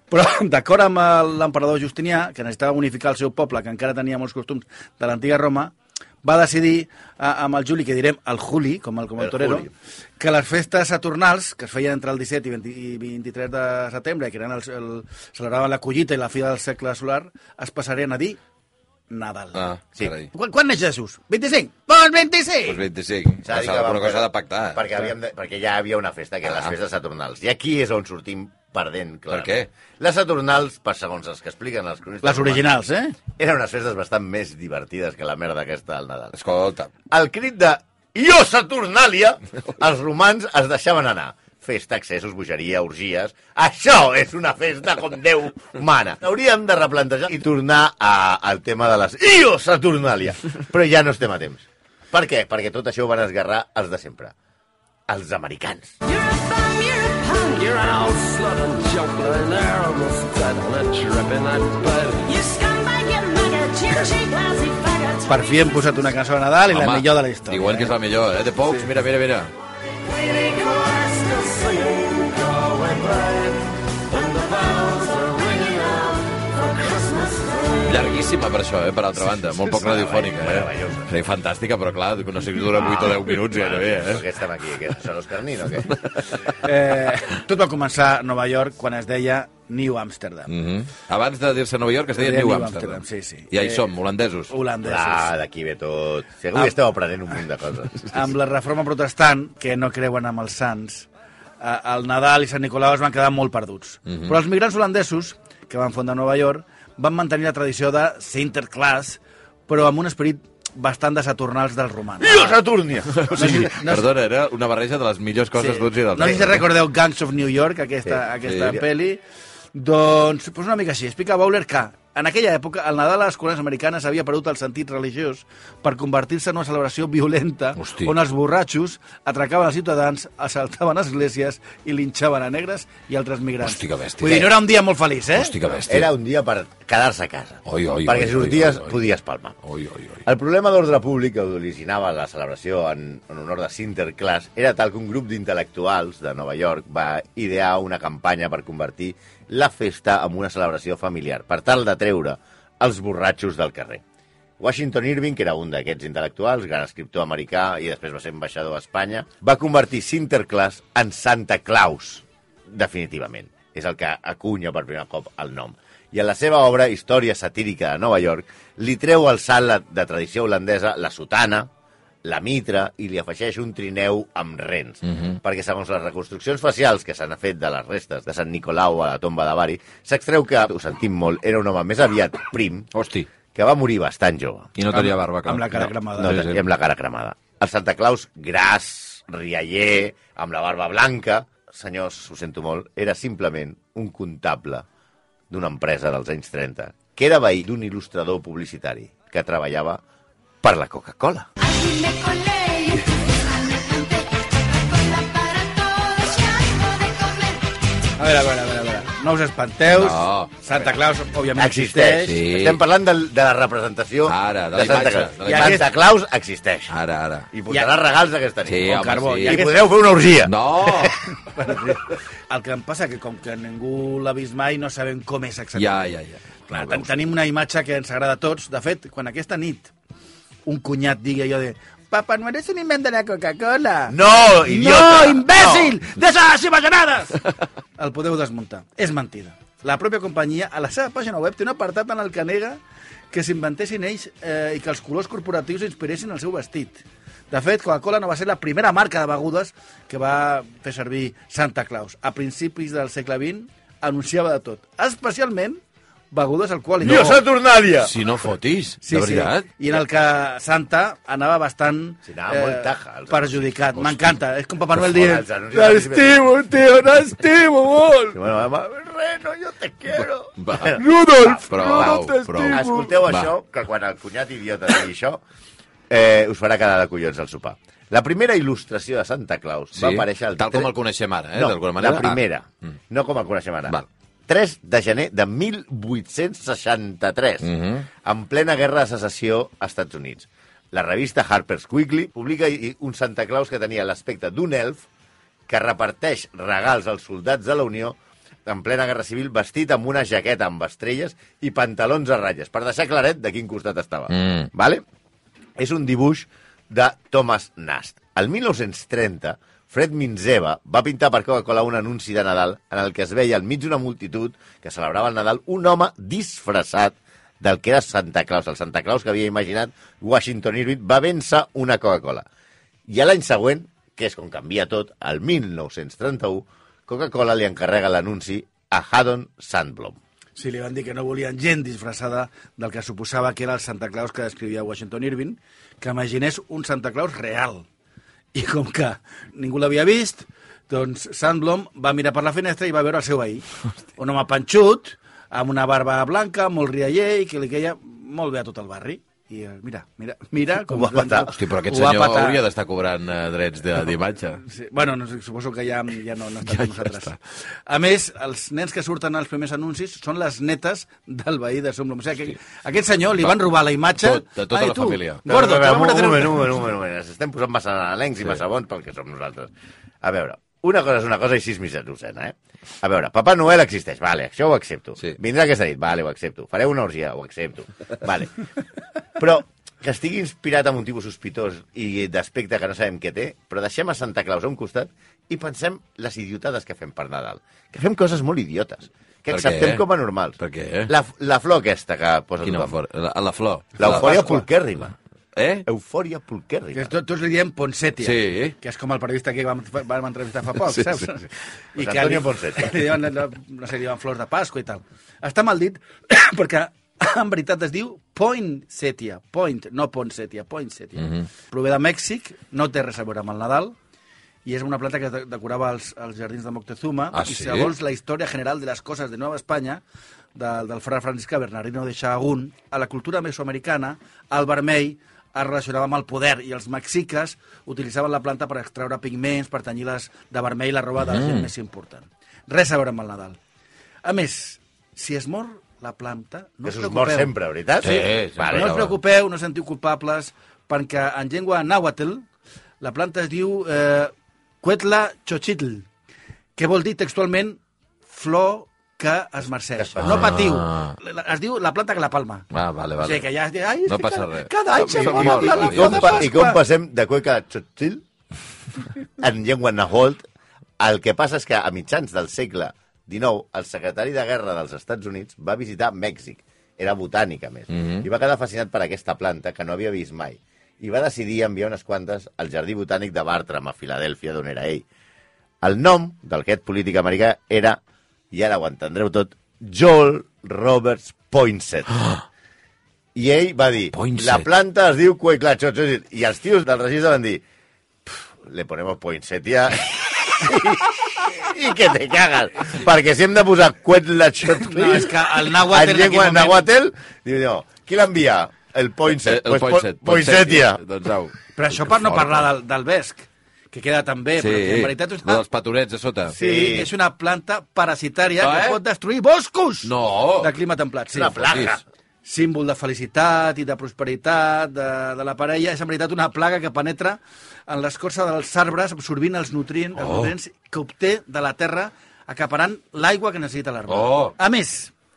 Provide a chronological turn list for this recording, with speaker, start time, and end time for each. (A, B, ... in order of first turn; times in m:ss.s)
0:00.1-0:18.4 A
0:09.2-0:09.7 B
0:19.1-0:19.6 A
0:19.6-0:20.3 C
0:20.3-0:22.8 A
0:22.6-0:24.9 C
0:23.4-0:32.7 B
0:29.3-0:29.7 C
0:32.2-0:33.2 A
0:33.4-0:36.4 B
0:36.4-0:36.9 C
0:37.1-0:54.3 B
0:55.1-0:56.0 B
0:56.1-1:05.2 D
1:03.1-1:03.6 E
1:05.2-1:07.9 A
1:06.7-1:09.5 C
1:10.0-1:18.0 D
1:17.8-1:24.2 C
1:19.6-1:21.1 B
1:22.7-1:26.0 B
1:26.6-1:30.5 A
1:30.5-1:34.5 C
1:32.2-1:33.9 A
1:34.5-1:35.3 A
1:34.8-1:38.1 B
1:38.1-1:41.1 A
1:41.6-1:52.6 A
1:44.1-1:44.3 C
1:52.2-1:53.7 B
1:53.2-1:56.7 C
1:53.3-1:54.1 A
1:55.6-1:59.2 A
1:58.4-1:58.8 C
1:59.7-2:15.6 A
2:07.8-2:08.1 C
2:13.6-2:14.6 C
2:15.4-2:16.1 C
2:15.9-2:19.6 B
2:17.7-2:19.0 C
2:19.6-2:20.2 C
2:20.2-2:34.0 B
2:34.6-2:51.7 B
2:52.2-3:02.9 B
2:55.1-2:55.4 C
3:02.9-3:03.3 C
3:03.5-3:04.7 B
3:04.8-3:06.6 C
3:04.9-3:06.5 A
3:06.2-3:14.9 B
3:15.5-3:20.0 B
3:20.6-3:21.5 B
3:21.7-3:24.1 E
3:28.2-3:32.4 A
3:29.9-3:30.5 C
3:31.6-3:37.0 B
3:32.2-3:32.8 C
3:34.3-3:35.9 C
3:35.4-3:35.9 A
3:36.9-3:37.5 C
3:37.5-3:41.1 B
3:38.7-3:39.7 C
3:38.9-3:39.9 A
3:40.4-3:41.2 C
3:41.3-3:46.1 A
3:45.8-3:46.6 C
3:46.7-3:47.0 B
3:46.7-3:49.9 A
3:50.7-3:57.4 A
3:54.1-3:56.0 B
3:58.0-4:15.8 A
4:16.3-4:17.4 A
4:17.0-4:18.2 B
4:18.0-4:19.7 C
4:19.0-4:28.1 A
4:22.3-4:24.3 B
4:25.0-4:26.4 B
4:26.0-4:28.3 C
4:28.3-4:35.4 B
4:30.6-4:33.5 C
4:31.0-4:33.0 A
4:36.1-4:40.9 B
4:40.0-4:42.4 C
4:41.5-4:47.7 B
4:47.6-4:48.1 C
4:48.2-4:55.1 B
4:55.7-5:05.0 B
5:04.3-5:04.7 C
5:05.8-5:22.5 B
5:23.1-5:30.2 B
5:30.6-5:37.9 A
5:38.5-5:43.7 A
5:44.2-5:52.6 A
5:50.9-5:51.5 B
5:51.5-5:54.6 C
5:54.6-5:57.4 A
5:56.6-5:57.4 C
5:57.9-6:06.7 A
6:04.2-6:05.4 C
6:05.5-6:09.7 B
6:10.2-6:18.6 B
6:19.4-6:33.0 B
6:29.5-6:30.0 C
6:30.6-6:31.1 C
6:32.6-6:34.5 C
6:34.0-6:35.2 B
6:34.0-6:34.7 A
6:35.6-6:35.9 C
6:35.9-6:37.1 B
6:36.9-6:54.0 A
6:38.2-6:38.8 C
6:40.9-6:41.2 C
6:42.0-6:43.0 B
6:51.2-6:51.5 C
6:54.6-7:00.0 A
6:57.3-6:57.9 C
7:00.6-7:13.6 A
7:11.2-7:11.7 C
7:14.2-7:22.5 A
7:16.8-7:19.0 B
7:18.0-7:19.2 C
7:23.0-7:26.1 A
7:26.8-7:32.7 A
7:30.0-7:30.6 B
7:30.2-7:31.2 C
7:32.7-7:33.5 C
7:33.2-7:36.8 A
7:34.1-7:36.5 C
7:35.0-7:38.3 B
7:39.4-7:40.4 B
7:41.0-7:55.0 B
7:47.9-7:48.3 C
7:55.8-8:02.3 B
8:02.1-8:02.4 C
8:03.4-8:07.6 B
8:04.1-8:04.7 C
8:08.3-8:21.0 B
8:14.8-8:16.9 A
8:19.4-8:22.7 C
8:21.8-8:25.6 A
8:24.6-8:27.0 C
8:26.5-8:31.7 A
8:26.6-8:27.1 B
8:28.6-8:29.0 C
8:30.0-8:30.7 C
8:31.3-8:32.0 B
8:31.7-8:31.9 C
8:32.4-8:45.1 A
8:40.2-8:40.5 C
8:44.1-8:44.6 C